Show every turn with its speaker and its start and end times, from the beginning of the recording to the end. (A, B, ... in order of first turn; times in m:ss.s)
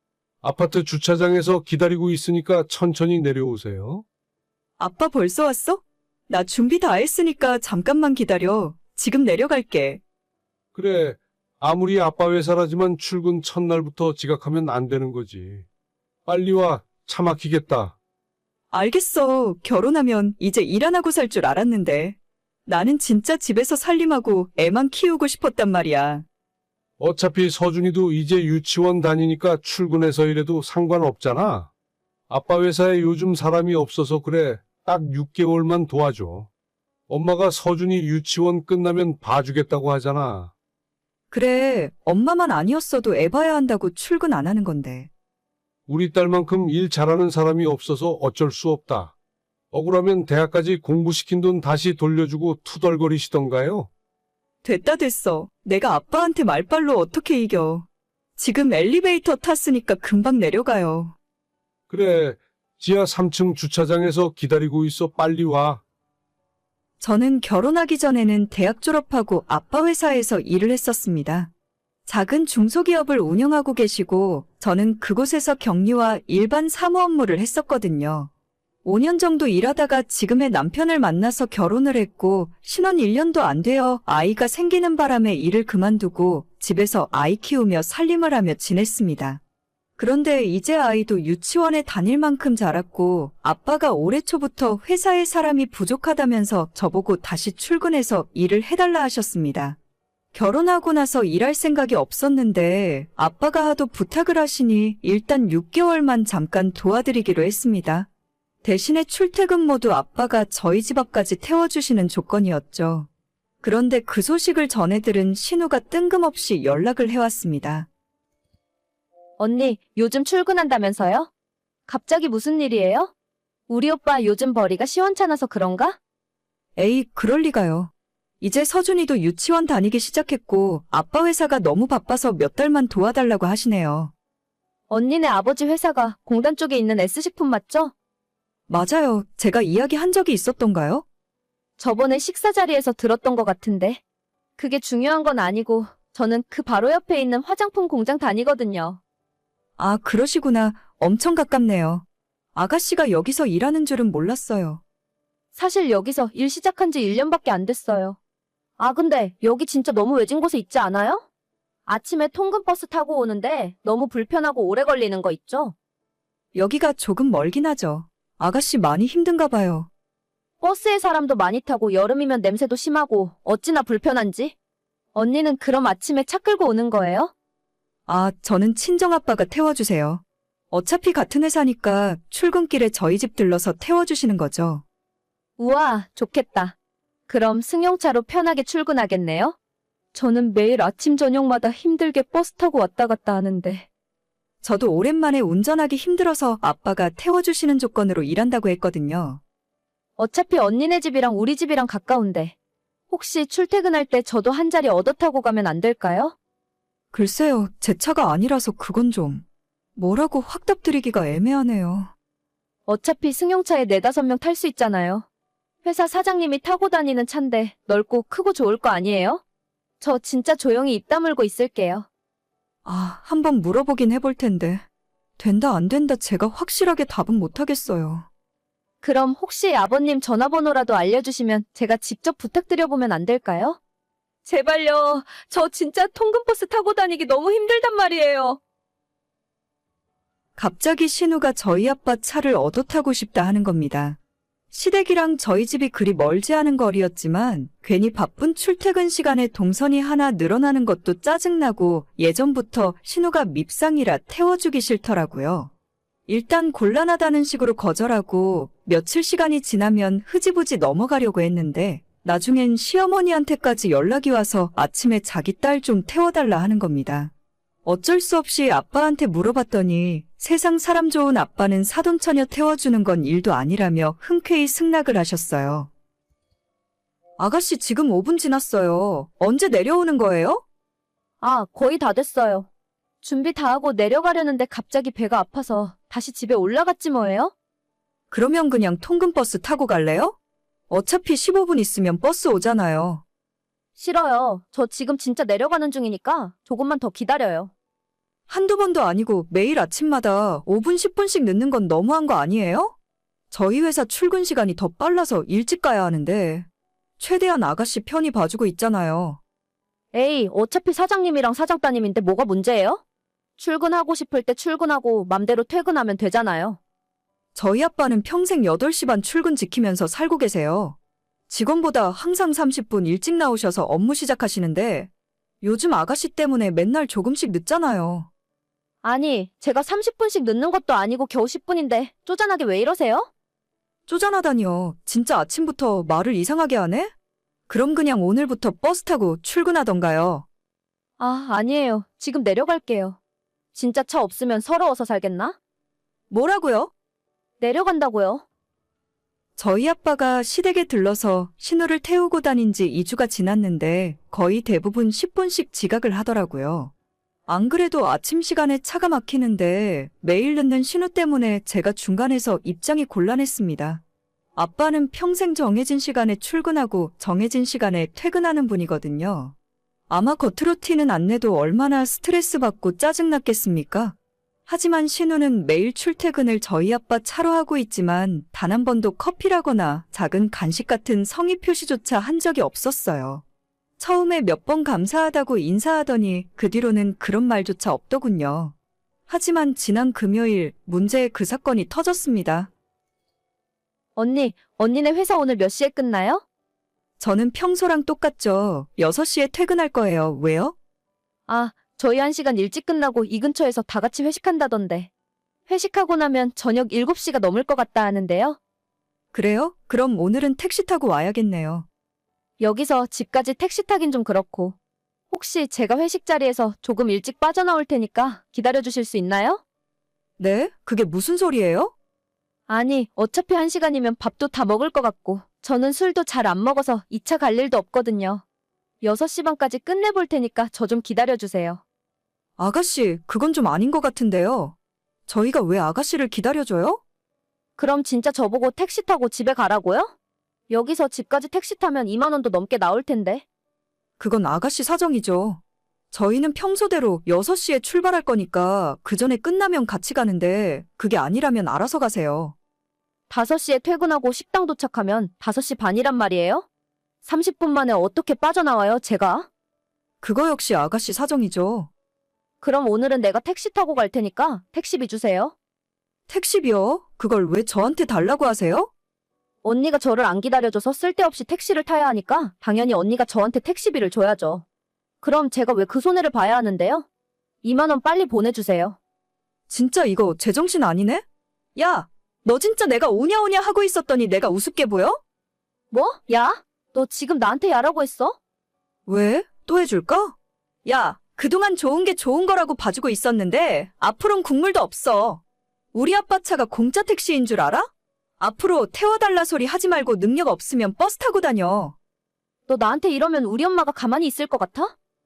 0:00.4-0:04.0 A
0:04.8-0:10.0 B
0:10.7-0:15.6 A
0:16.2-0:18.0 A
0:18.7-0:26.2 B
0:27.0-0:31.7 A
0:32.3-0:36.5 A
0:37.1-0:40.5 A
0:41.3-0:45.1 B
0:45.9-0:49.1 A
0:49.7-0:53.9 A
0:54.6-0:57.8 B
0:58.4-1:01.2 B
1:01.9-1:05.8 A
1:07.0-1:11.5 B
1:12.0-1:18.3 B
1:18.8-1:29.4 B
1:30.0-1:39.8 B
1:40.3-1:48.1 B
1:48.6-1:53.1 B
1:53.6-1:57.9 B
1:59.4-2:01.3 C
2:01.9-2:03.1 C
2:03.7-2:06.0 C
2:06.8-2:14.1 B
2:14.9-2:17.9 C
2:18.7-2:21.0 B
2:21.8-2:24.0 C
2:24.6-2:29.0 C
2:29.8-2:34.8 B
2:35.5-2:38.2 C
2:38.8-2:41.2 C
2:41.8-2:45.7 C
2:46.5-2:49.9 B
2:50.6-2:54.5 C
2:55.1-2:57.3 C
2:58.1-3:04.8 B
3:05.6-3:06.7 C
3:07.3-3:09.5 C
3:10.1-3:13.9 C
3:14.6-3:19.4 B
3:20.2-3:22.5 C
3:23.1-3:26.3 C
3:27.1-3:29.4 B
3:30.0-3:32.1 B
3:32.8-3:35.2 C
3:35.8-3:39.4 C
3:40.0-3:42.1 C
3:42.8-3:44.8 B
3:45.4-3:48.3 B
3:49.0-3:53.8 C
3:54.4-3:58.6 C
4:00.6-4:04.2 B
4:04.7-4:15.7 B
4:16.3-4:27.3 B
4:27.8-4:35.9 B
4:37.4-4:40.6 B
4:41.4-4:42.7 C
4:43.2-4:47.5 C
4:48.3-4:50.4 B
4:50.9-4:53.2 B
4:54.0-4:57.7 C
4:58.5-5:02.9 B
5:03.5-5:06.7 B
5:07.2-5:09.4 B
5:10.1-5:13.0 C
5:13.6-5:16.8 C
5:17.5-5:21.0 B
5:21.5-5:25.1 B
5:25.6-5:28.3 B
5:29.0-5:33.3 C
5:34.1-5:37.1 B
5:37.7-5:40.4 B
5:41.2-5:43.2 C
5:43.7-5:45.6 C
5:46.3-5:46.9 B
5:47.6-5:48.4 C
5:49.6-5:56.9 B
5:57.5-6:04.0 B
6:04.6-6:09.5 B
6:10.1-6:14.2 B
6:14.7-6:23.4 B
6:24.0-6:28.7 B
6:29.3-6:32.7 B
6:34.2-6:36.4 C
6:37.2-6:40.7 B
6:41.5-6:45.1 C
6:45.7-6:48.6 C
6:49.3-6:51.9 B
6:52.6-6:54.8 C
6:55.3-6:59.6 C
7:00.4-7:01.9 B
7:02.7-7:08.4 C
7:09.0-7:11.8 C
7:12.6-7:14.8 B
7:15.3-7:17.0 B
7:17.8-7:20.1 C
7:20.7-7:23.4 C
7:24.2-7:32.5 B
7:33.3-7:36.7 C
7:37.2-7:39.5 C
7:40.2-7:41.9 B
7:42.6-7:45.5 C
7:46.3-7:48.9 B
7:49.6-7:54.6 C
7:55.2-7:57.0 C
7:57.6-7:59.0 C
7:59.7-8:01.2 B
8:01.8-8:05.2 B
8:05.9-8:08.4 C
8:09.0-8:15.4 B
8:15.9-8:21.9 B
8:22.7-8:24.9 C